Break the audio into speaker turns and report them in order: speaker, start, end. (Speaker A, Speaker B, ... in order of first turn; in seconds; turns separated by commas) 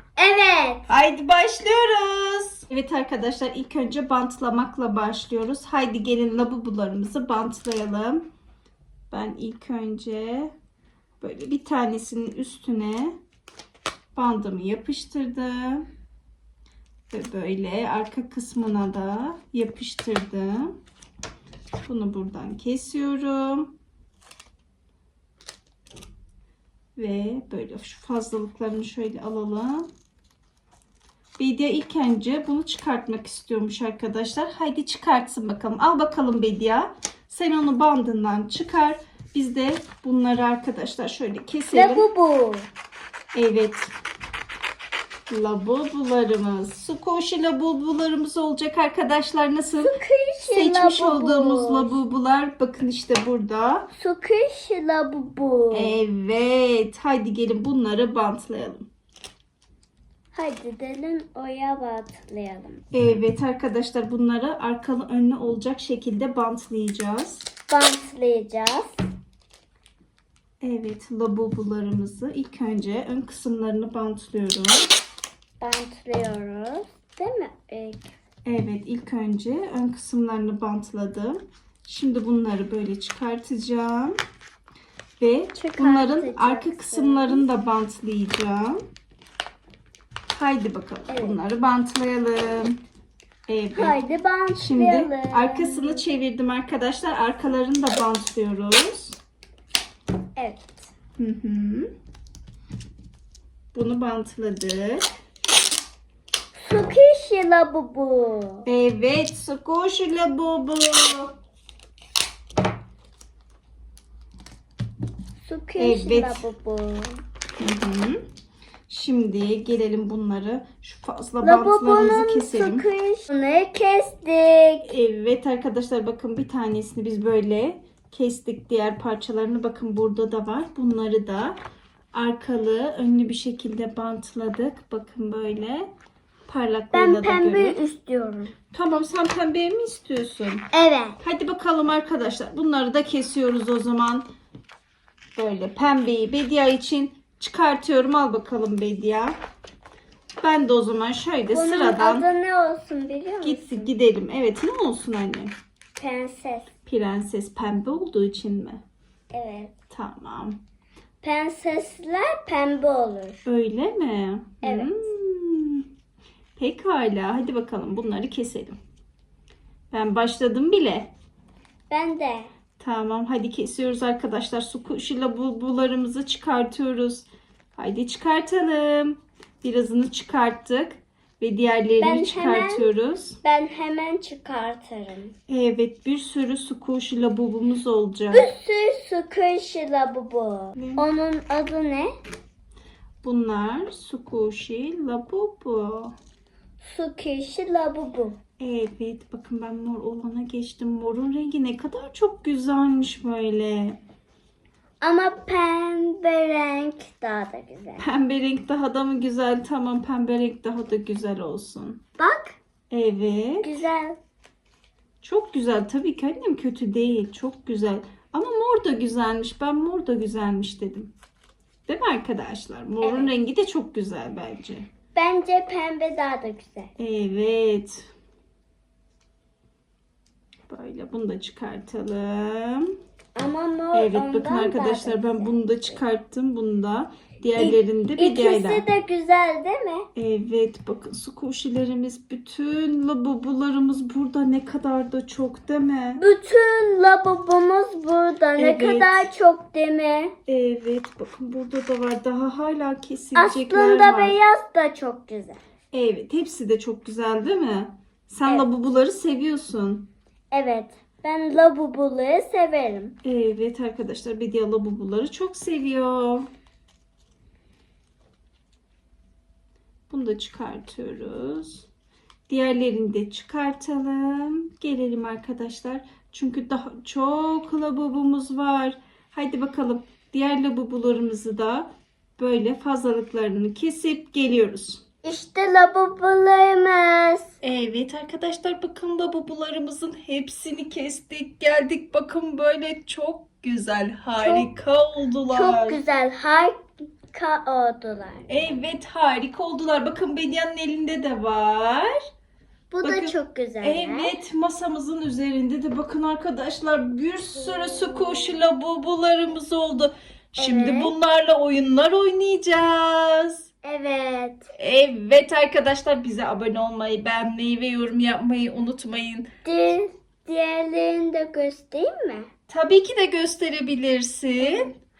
Speaker A: 0.2-0.9, Speaker B: 0.9-8.2, Speaker B: 9.1-10.5, Speaker B: 11.2-13.2, Speaker B: 14.1-15.9, Speaker B: 17.1-20.8, Speaker B: 21.8-23.7, Speaker B: 26.9-29.9, Speaker B: 31.4-42.1, Speaker A: 41.7-42.7, Speaker B: 43.3-43.9, Speaker B: 45.3-53.9, Speaker A: 49.8-52.0, Speaker A: 53.9-56.0, Speaker B: 55.7-58.9, Speaker A: 60.3-62.8, Speaker B: 62.9-67.5, Speaker A: 67.7-69.0, Speaker B: 70.6-74.9, Speaker A: 75.6-78.1, Speaker B: 78.4-84.2, Speaker B: 85.2-88.8, Speaker A: 85.5-87.5, Speaker B: 90.3-92.8, Speaker A: 91.1-91.4, Speaker B: 93.5-99.2, Speaker A: 93.7-96.0, Speaker A: 100.4-100.7, Speaker B: 101.2-101.9, Speaker B: 103.7-105.1, Speaker A: 106.6-108.7, Speaker B: 108.7-111.3, Speaker A: 115.4-117.2, Speaker B: 115.8-116.5, Speaker B: 117.6-118.2, Speaker B: 118.9-122.9, Speaker A: 121.4-124.9, Speaker B: 124.8-131.6, Speaker B: 132.1-135.9, Speaker B: 136.5-137.8, Speaker A: 136.9-138.6, Speaker B: 138.7-140.7, Speaker A: 140.7-141.2, Speaker B: 141.2-144.2, Speaker B: 145.3-149.4, Speaker B: 150.4-152.3, Speaker A: 151.5-153.9, Speaker B: 153.4-155.5, Speaker A: 156.0-156.8, Speaker B: 156.8-158.8, Speaker A: 159.3-159.8, Speaker B: 159.9-160.6, Speaker A: 161.2-163.4, Speaker B: 163.4-165.9, Speaker A: 164.6-165.1, Speaker B: 166.6-168.8, Speaker B: 169.9-171.1, Speaker A: 171.9-172.5, Speaker B: 172.8-183.4, Speaker A: 182.0-185.3, Speaker B: 185.5-188.5, Speaker A: 188.3-192.1, Speaker B: 190.7-191.1, Speaker B: 193.2-196.2, Speaker A: 196.8-198.4, Speaker B: 198.6-204.0, Speaker A: 205.0-208.1, Speaker B: 208.0-212.0, Speaker A: 212.2-212.6, Speaker B: 212.9-213.8, Speaker A: 213.6-214.2, Speaker B: 215.2-221.1, Speaker B: 221.9-224.9, Speaker A: 223.0-223.3, Speaker A: 225.1-226.9, Speaker B: 227.0-228.1, Speaker B: 230.7-232.9, Speaker A: 233.3-236.0, Speaker B: 233.9-238.9, Speaker A: 237.6-240.1, Speaker B: 240.1-246.2, Speaker A: 246.2-250.3, Speaker B: 248.6-249.3, Speaker B: 250.4-254.4, Speaker A: 253.3-255.6, Speaker B: 255.9-260.1, Speaker A: 260.5-263.1, Speaker B: 263.2-266.5, Speaker B: 270.1-271.9, Speaker B: 272.5-285.0, Speaker A: 285.2-287.5, Speaker B: 287.6-296.0, Speaker A: 294.4-294.7, Speaker A: 295.5-298.5, Speaker B: 298.5-302.1, Speaker A: 302.9-304.3, Speaker B: 303.0-313.7, Speaker A: 307.9-308.5, Speaker A: 310.6-311.1, Speaker A: 313.8-314.7, Speaker B: 314.7-319.5, Speaker A: 319.6-322.5, Speaker B: 322.7-324.9, Speaker A: 324.6-324.9